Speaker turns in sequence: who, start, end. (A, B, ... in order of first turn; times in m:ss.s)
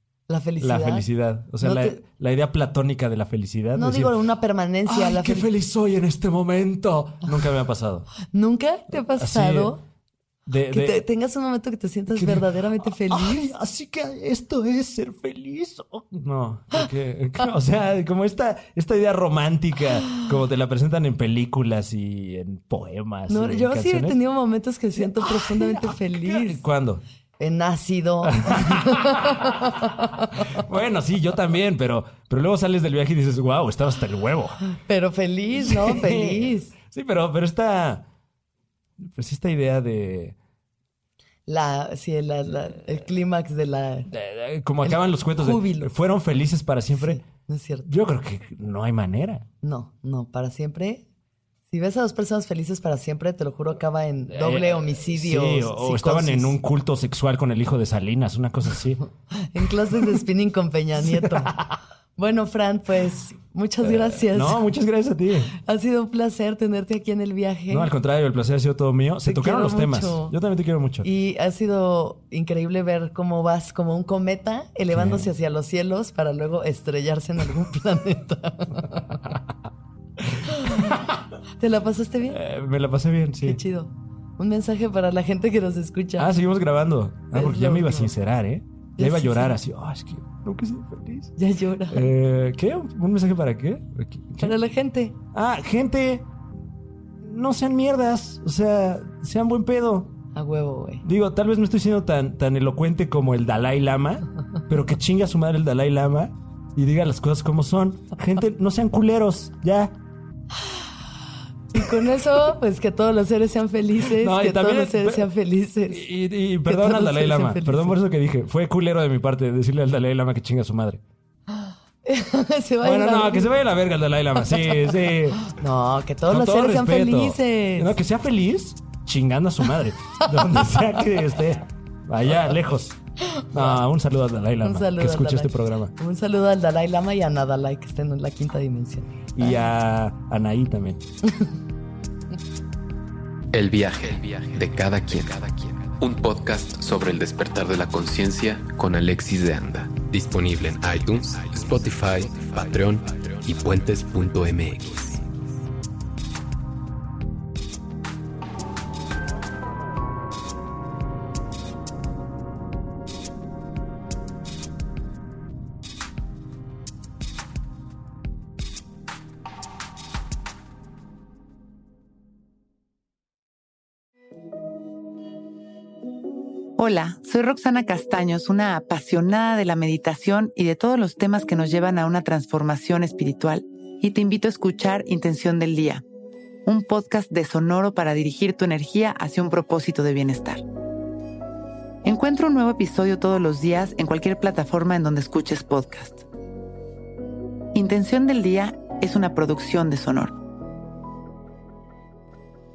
0:00.3-0:01.1 A
0:00.6-0:04.2 B
0:01.6-0:02.0 A
0:03.7-0:05.5 A
0:04.8-0:08.1 B
0:08.2-0:09.8 A
0:08.9-0:09.8 B
0:10.5-0:11.0 B
0:10.6-0:13.5 A
0:12.1-0:24.2 B
0:23.3-0:26.6 A
0:25.0-0:27.0 B
0:27.4-0:30.6 A
0:28.2-0:34.6 B
0:34.7-0:36.7 A
0:35.6-0:38.0 B
0:39.0-0:40.4 B
0:41.5-0:44.1 A
0:44.1-0:47.2 B
0:44.8-0:45.9 A
0:46.9-0:47.9 A
0:47.8-0:49.4 B
0:49.6-0:51.0 A
0:51.7-0:56.5 A
0:54.3-0:59.0 B
0:59.3-1:01.6 A
0:59.6-1:00.2 B
1:01.0-1:01.8 B
1:02.2-1:04.7 A
1:03.8-1:05.5 B
1:05.5-1:07.9 A
1:07.7-1:11.1 B
1:09.2-1:10.3 A
1:11.0-1:19.2 A
1:14.9-1:15.3 B
1:20.2-1:21.2 B
1:20.4-1:21.0 A
1:21.6-1:22.4 A
1:22.2-1:23.6 B
1:23.4-1:26.3 A
1:26.2-1:31.3 B
1:27.3-1:28.1 A
1:29.0-1:29.6 A
1:31.4-1:32.1 A
1:31.9-1:34.6 B
1:34.4-1:35.2 A
1:35.3-1:36.3 B
1:37.2-1:40.2 B
1:40.3-1:41.0 A
1:41.0-1:50.0 B
1:51.7-1:56.1 A
1:54.0-1:55.3 B
1:55.9-2:01.0 B
1:56.6-1:58.0 A
2:01.5-2:03.6 A
2:02.8-2:05.5 B
2:05.4-2:08.0 A
2:06.2-2:13.0 B
2:10.2-2:10.8 A
2:13.2-2:13.8 A
2:13.5-2:15.9 B
2:14.6-2:19.6 A
2:19.3-2:21.0 B
2:23.5-2:35.4 C
2:56.8-3:06.0 D
3:06.6-3:10.6 D
3:12.0-3:16.2 D
3:17.7-3:20.4 D